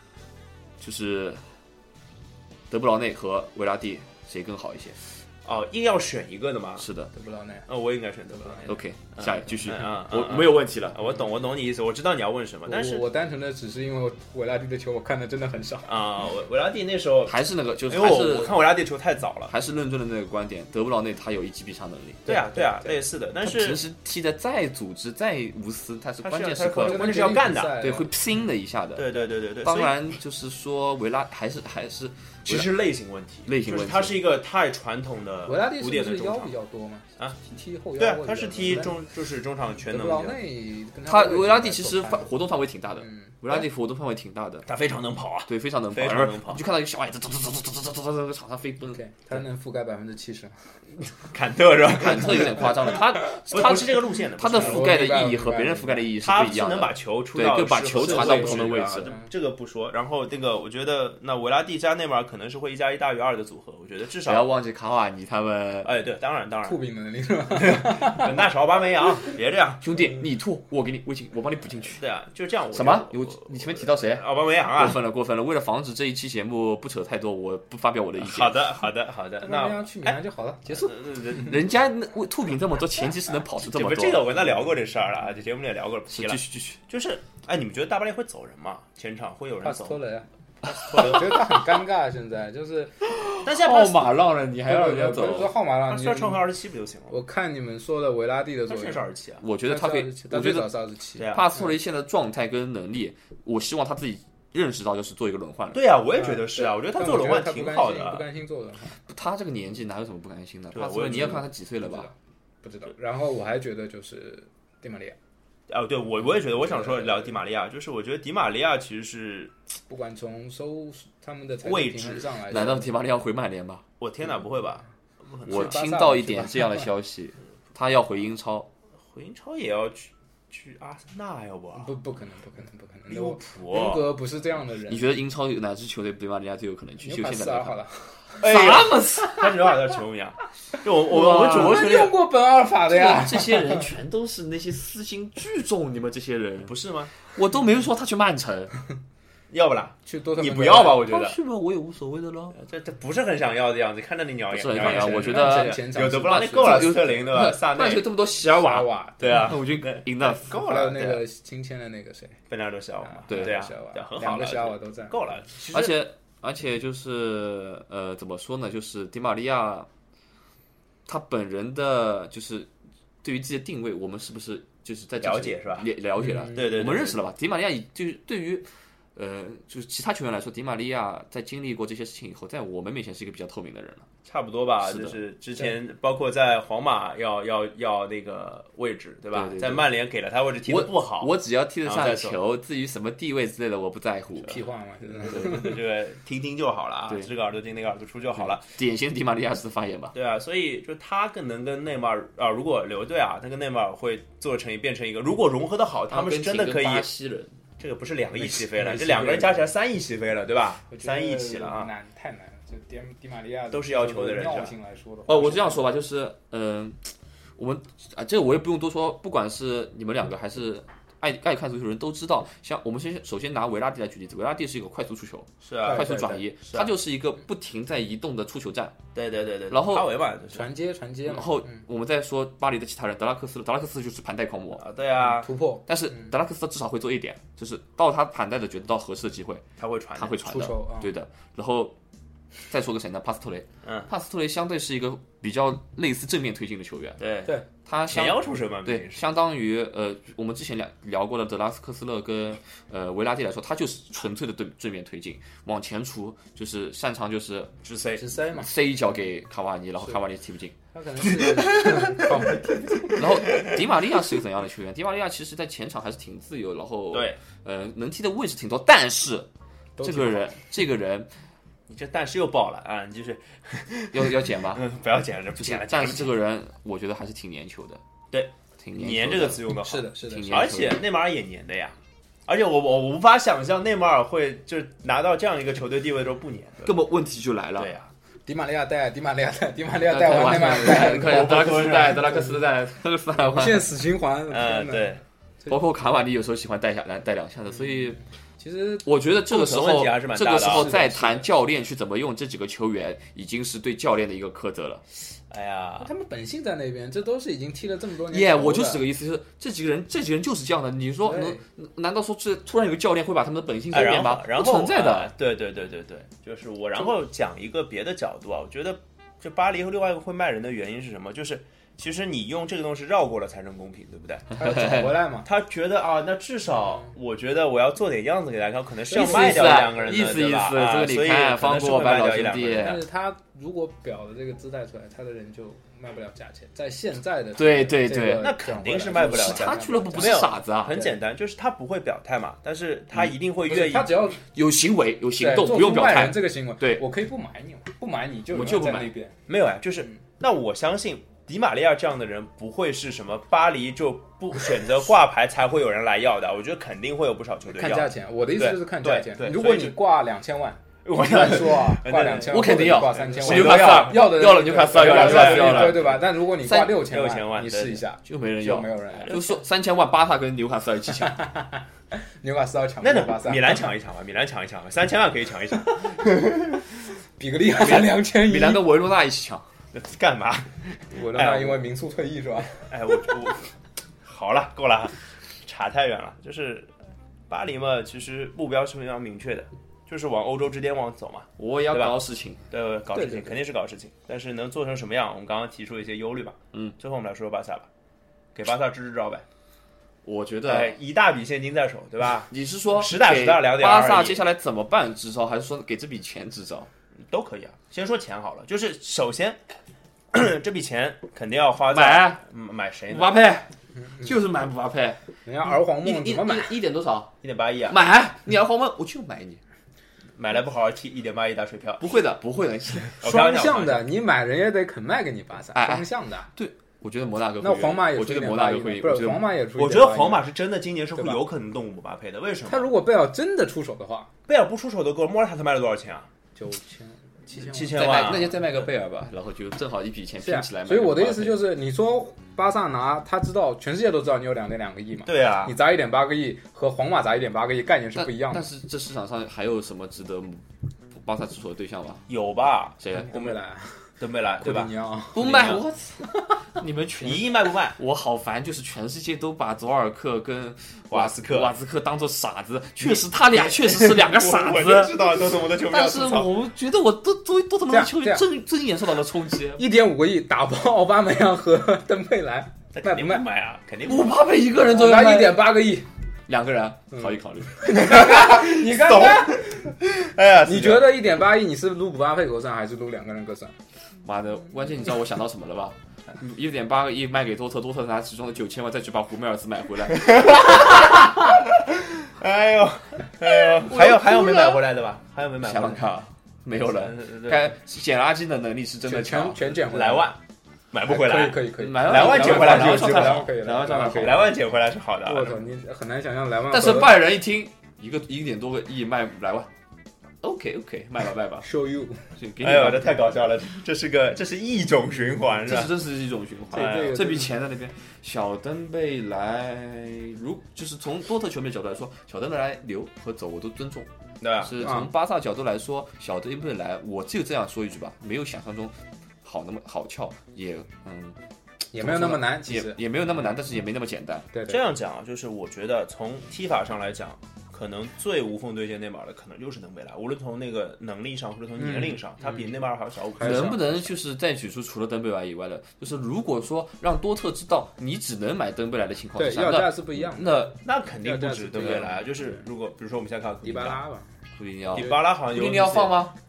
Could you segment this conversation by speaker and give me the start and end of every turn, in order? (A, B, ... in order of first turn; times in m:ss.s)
0:00.8-0:01.4 A
0:02.7-0:05.0 A
0:05.4-0:06.9 B
0:06.8-0:07.1 A
0:07.1-0:07.7 C
0:07.7-0:13.0 B
0:08.3-0:08.7 C
0:08.7-0:11.0 A
0:12.7-0:15.9 C
0:15.9-0:19.5 B
0:17.3-0:18.6 A
0:19.5-0:22.3 A
0:22.3-0:23.0 C
0:22.3-0:23.8 B
0:23.4-0:29.1 A
0:26.2-0:27.8 B
0:26.8-0:28.1 C
0:29.0-0:30.1 B
0:29.6-0:32.7 A
0:32.4-0:36.5 B
0:33.5-0:34.2 A
0:35.4-0:39.0 C
0:38.0-0:40.4 B
0:39.9-0:42.3 C
0:41.1-0:44.7 A
0:43.0-0:43.4 C
0:44.7-0:46.6 B
0:45.5-0:49.0 A
0:48.9-0:50.8 C
0:51.1-0:55.0 B
0:51.9-0:59.1 A
0:54.4-0:56.1 C
0:56.2-1:04.4 B
0:58.0-0:59.3 C
1:04.2-1:05.9 A
1:05.8-1:06.8 B
1:06.6-1:08.3 C
1:07.6-1:09.9 B
1:09.8-1:12.0 A
1:11.9-1:15.0 B
1:12.7-1:18.6 A
1:18.2-1:21.6 B
1:19.4-1:20.9 C
1:20.7-1:24.3 A
1:23.6-1:30.0 B
1:26.1-1:26.8 A
1:29.6-1:33.0 C
1:30.9-1:31.4 B
1:30.9-1:31.2 A
1:33.0-1:35.5 A
1:33.4-1:34.1 B
1:34.7-1:36.4 C
1:35.9-1:37.1 B
1:37.1-1:39.0 C
1:38.7-1:39.4 B
1:39.4-1:40.7 A
1:39.6-1:41.7 C
1:41.2-1:41.4 B
1:41.3-1:45.8 A
1:45.7-1:48.2 B
1:46.1-1:49.0 C
1:49.1-1:52.1 A
1:50.7-1:51.4 B
1:51.8-1:55.2 C
1:55.7-1:59.5 B
1:56.4-1:57.4 C
1:59.9-2:02.9 C
2:01.6-2:02.3 B
2:02.5-2:03.8 A
2:04.0-2:05.8 B
2:05.5-2:06.9 C
2:05.5-2:08.7 A
2:09.1-2:11.9 B
2:11.7-2:15.1 C
2:13.1-2:14.1 B
2:14.9-2:17.8 A
2:17.0-2:18.5 C
2:18.4-2:22.2 B
2:18.4-2:19.5 A
2:21.1-2:21.8 A
2:21.1-2:23.9 C
2:22.9-2:26.7 A
2:26.6-2:27.1 B
2:27.3-2:28.7 A
2:29.5-2:31.4 B
2:30.1-2:31.0 C
2:31.0-2:32.6 A
2:32.6-2:38.1 B
2:34.5-2:40.6 A
2:34.8-2:37.1 C
2:38.4-2:39.5 C
2:39.2-2:41.2 B
2:40.5-2:42.4 C
2:42.5-2:46.0 B
2:43.0-2:45.4 C
2:43.3-2:43.6 A
2:45.6-2:49.9 A
2:51.1-2:52.7 A
2:53.2-3:04.1 A
2:55.2-2:55.9 B
2:56.2-2:56.7 C
2:56.5-2:57.2 B
3:04.3-3:12.4 B
3:04.8-3:05.2 A
3:09.3-3:09.9 A
3:10.7-3:14.6 A
3:14.4-3:15.8 C
3:15.2-3:18.6 B
3:18.4-3:20.1 A
3:20.1-3:27.1 B
3:26.1-3:27.6 A
3:27.8-3:31.9 B
3:28.4-3:29.7 C
3:30.9-3:35.8 C
3:33.7-3:34.7 B
3:35.3-3:49.0 A
3:45.6-3:46.9 B
3:45.8-3:46.3 C
3:49.1-3:50.7 B
3:49.7-3:50.1 A
3:50.5-3:51.8 C
3:51.3-3:54.8 A
3:54.8-3:55.5 B
3:55.2-3:56.3 C
3:55.9-3:59.6 A
3:59.8-4:00.5 B
4:00.1-4:02.0 A
4:00.4-4:01.1 C
4:02.7-4:07.2 A
4:03.8-4:04.1 B
4:07.2-4:07.6 B
4:07.8-4:17.7 A
4:08.1-4:09.2 B
4:17.8-4:18.2 B
4:18.2-4:18.7 C
4:18.5-4:20.7 A
4:20.9-4:23.2 C
4:21.5-4:22.1 B
4:23.1-4:23.7 B
4:23.2-4:29.5 A
4:27.1-4:27.4 B
4:30.0-4:30.6 C
4:30.0-4:31.3 A
4:31.9-4:36.4 B
4:34.1-4:34.8 A
4:35.6-4:38.0 A
4:38.3-4:47.0 B
4:38.8-4:41.0 A
4:39.8-4:40.7 C
4:46.8-4:47.9 A
4:47.8-4:48.1 B
4:48.4-4:52.6 C
4:50.0-4:53.9 A
4:50.9-4:52.4 B
4:53.3-4:55.8 C
4:54.5-4:55.2 B
4:55.7-4:58.2 A
4:57.8-4:59.1 C
4:59.0-5:05.0 A
4:59.4-5:00.9 B
5:00.5-5:01.5 C
5:05.5-5:06.1 B
5:06.0-5:09.0 C
5:08.3-5:15.3 A
5:11.2-5:11.6 C
5:13.9-5:33.0 B
5:24.6-5:25.5 C
5:24.7-5:25.2 A
5:29.1-5:30.2 C
5:29.1-5:33.0 A
5:32.8-5:41.1 C
5:37.6-5:38.5 A
5:38.4-5:44.2 B
5:39.2-5:41.0 A
5:43.7-5:44.4 C
5:44.5-5:47.0 A
5:45.4-5:49.4 C
5:48.5-5:49.1 A
5:49.5-6:00.0 B
5:57.7-6:09.4 C
6:01.0-6:04.3 B
6:02.5-6:07.0 A
6:04.9-6:06.2 B
6:07.0-6:08.0 B
6:08.2-6:11.4 A
6:11.3-6:11.8 C
6:12.4-6:13.8 C
6:13.0-6:16.6 B
6:17.4-6:18.8 C
6:17.8-6:19.7 A
6:19.9-6:21.9 B
6:21.1-6:22.9 C
6:22.9-6:23.7 B
6:24.2-6:26.9 B
6:27.5-6:32.2 B
6:31.6-6:32.6 A
6:32.7-6:37.9 B
6:33.1-6:33.5 C
6:38.6-6:39.4 B
6:40.2-6:41.0 A
6:40.6-6:44.4 B
6:42.5-6:46.9 A
6:47.3-6:49.6 B
6:50.3-6:53.4 B
6:51.9-6:52.4 A
6:53.1-6:53.7 A
6:54.1-6:54.3 C
6:54.2-6:55.2 A
6:55.4-6:56.8 C
6:56.0-6:57.3 A
6:57.4-6:58.0 B
6:57.9-6:59.6 A
7:00.4-7:02.1 B
7:02.0-7:03.1 A
7:03.1-7:04.1 B
7:03.2-7:06.5 C
7:05.7-7:09.5 A
7:07.6-7:10.5 C
7:09.8-7:12.9 B
7:12.7-7:14.3 C
7:14.5-7:16.3 B
7:16.6-7:18.3 C
7:17.6-7:18.6 B
7:17.9-7:21.6 A
7:20.4-7:28.6 C
7:25.3-7:25.7 B
7:28.1-7:32.2 A
7:32.3-7:33.6 B
7:33.0-7:33.3 A
7:33.1-7:35.8 C
7:34.2-7:35.8 B
7:35.3-7:49.8 A
7:37.2-7:38.0 B
7:41.1-7:41.7 B
7:43.0-7:46.6 B
7:47.9-7:48.5 C
7:49.8-7:53.4 C
7:52.9-7:54.4 B
7:54.0-7:55.7 A
7:54.8-7:56.1 C
7:56.5-7:58.1 A
7:57.2-8:00.0 C
7:57.9-8:01.1 B
8:00.6-8:03.7 C
8:04.2-8:10.9 A
8:10.1-8:16.0 B
8:13.5-8:14.9 A
8:15.6-8:19.8 A
8:16.8-8:17.8 B
8:19.0-8:20.3 C
8:19.9-8:20.4 B
8:20.9-8:23.5 B
8:21.1-8:24.6 C
8:21.8-8:24.5 A
8:24.0-8:25.6 B
8:25.2-8:27.2 C
8:26.7-8:29.7 A
8:30.4-8:31.7 A
8:31.6-8:32.3 C
8:32.4-8:33.2 A
8:32.6-8:36.0 B
8:35.6-8:51.4 A
8:36.7-8:37.5 C
8:36.7-8:37.3 B
8:44.4-8:44.8 B
8:44.8-8:45.1 C
8:51.9-8:53.4 C
8:52.0-8:54.5 A
8:54.5-8:54.8 C
8:54.7-9:04.0 B
9:01.8-9:02.7 C
9:03.4-9:03.8 C
9:03.4-9:10.8 A
9:09.4-9:12.6 C
9:10.7-9:14.0 B
9:11.8-9:12.0 A
9:13.6-9:14.4 C
9:14.6-9:16.3 A
9:14.9-9:16.2 B
9:15.0-9:15.2 C